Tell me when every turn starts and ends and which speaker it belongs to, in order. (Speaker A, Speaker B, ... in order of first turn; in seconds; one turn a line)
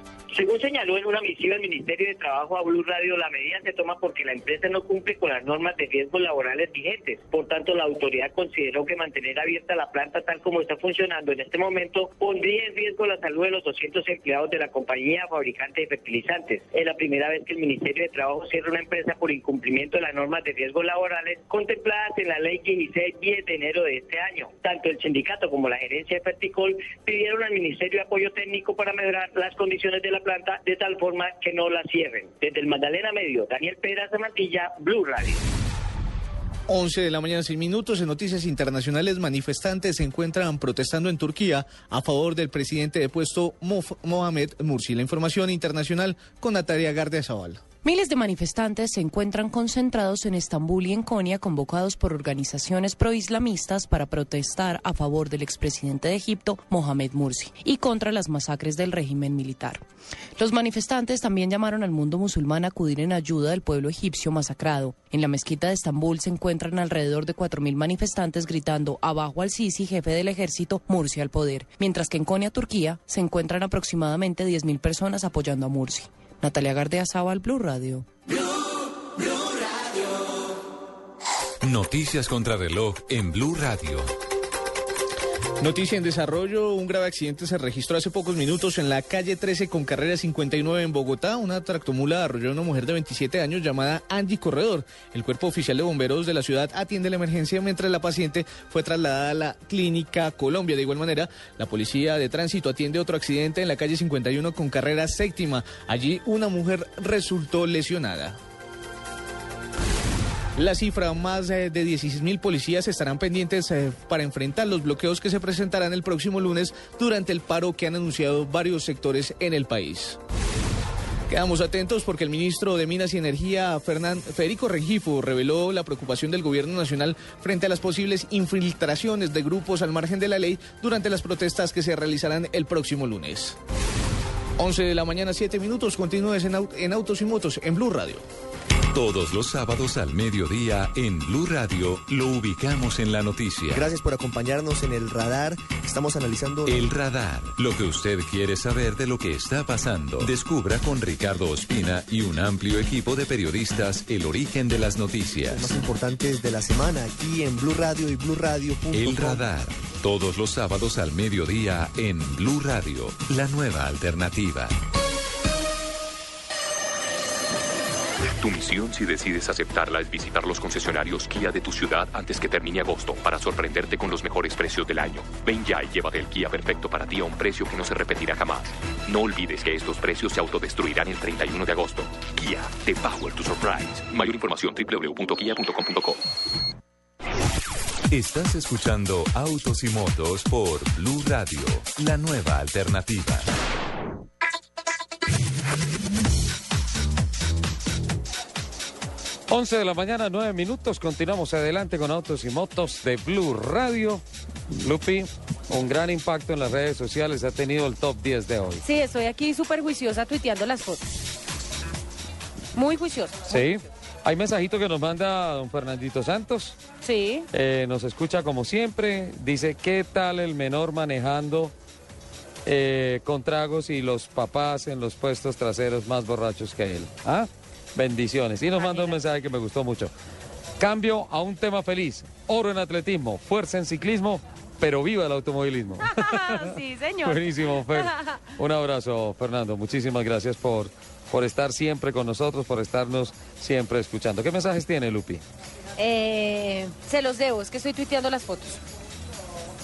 Speaker A: 0.3-35.4
Speaker B: 36.7-47.6
Speaker C: 47.8-59.8
Speaker C: 60.4-78.1
Speaker D: 81.6-84.1
Speaker B: 85.6-108.4
Speaker B: 110.6-120.2
Speaker B: 121.3-133.6
Speaker B: 134.6-138.2
Speaker D: 138.9-143.9
Speaker E: 143.7-146.9
Speaker D: 146.7-155.7
Speaker E: 155.5-159.4
Speaker D: 158.9-164.8
Speaker F: 168.4-186.2
Speaker D: 188.1-193.5
Speaker G: 199.5-208.8
Speaker H: 208.8-211.2
Speaker H: 212.8-213.7
Speaker G: 213.5-216.8
Speaker H: 217.0-217.5
Speaker G: 217.5-221.7
Speaker G: 222.7-230.1
Speaker H: 228.8-229.2
Speaker G: 230.8-245.4
Speaker H: 236.0-237.4
Speaker H: 237.9-238.4
Speaker H: 246.0-248.8